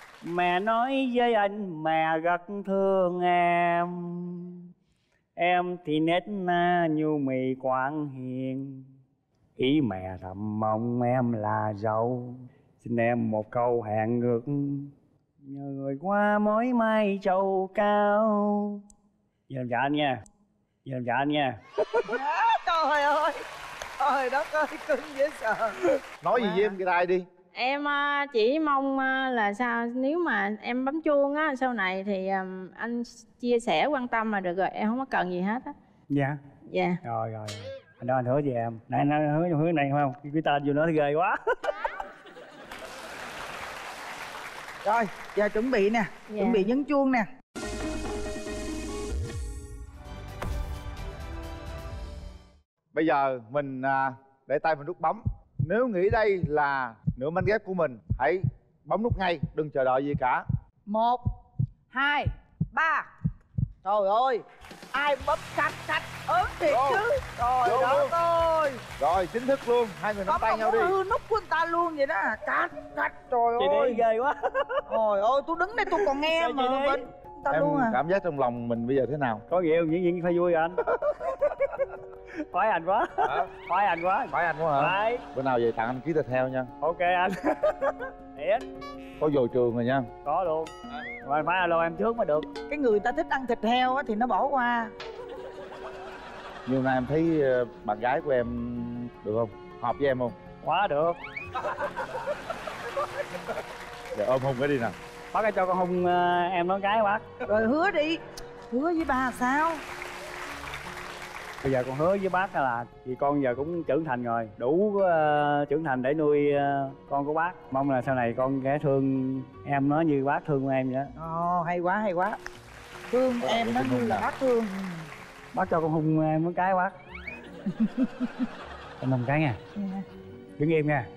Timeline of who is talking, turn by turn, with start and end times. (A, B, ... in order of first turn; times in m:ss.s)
0:00.2-0:04.6 A
0:05.4-0:08.8 A
0:09.6-0:14.9 A
0:15.4-0:18.8 A
0:19.5-0:20.2 A
0:20.8-0:21.6 A
0:22.0-0:23.4 B
0:24.0-0:25.8 B
0:26.2-0:27.2 C
0:26.3-0:26.8 B
0:27.5-0:35.7 D
0:36.1-0:36.4 A
0:36.7-0:37.0 D
0:37.0-0:41.4 A
0:44.8-0:47.3 B
0:46.3-0:46.7 D
0:52.9-1:00.4 C
1:00.9-1:01.2 B
1:01.9-1:03.1 B
1:03.8-1:08.8 B
1:06.7-1:07.0 C
1:07.6-1:08.1 C
1:09.0-1:10.9 C
1:10.3-1:14.0 B
1:13.6-1:14.8 A
1:14.9-1:18.0 B
1:16.0-1:17.0 A
1:17.5-1:19.4 C
1:19.5-1:20.8 A
1:21.5-1:21.8 A
1:22.5-1:25.2 A
1:23.2-1:23.5 C
1:24.3-1:26.7 C
1:26.8-1:28.6 A
1:29.2-1:30.0 C
1:30.2-1:30.7 A
1:31.2-1:32.5 A
1:32.7-1:34.9 B
1:36.6-1:40.3 C
1:40.6-1:41.2 A
1:44.1-1:44.9 C
1:45.3-1:47.2 A
1:47.4-1:49.8 B
1:51.6-2:01.1 A
2:01.2-2:02.4 B
2:03.1-2:05.0 B
2:03.4-2:04.3 C
2:05.5-2:06.9 A
2:09.0-2:09.6 A
2:09.8-2:10.0 B
2:10.6-2:11.1 A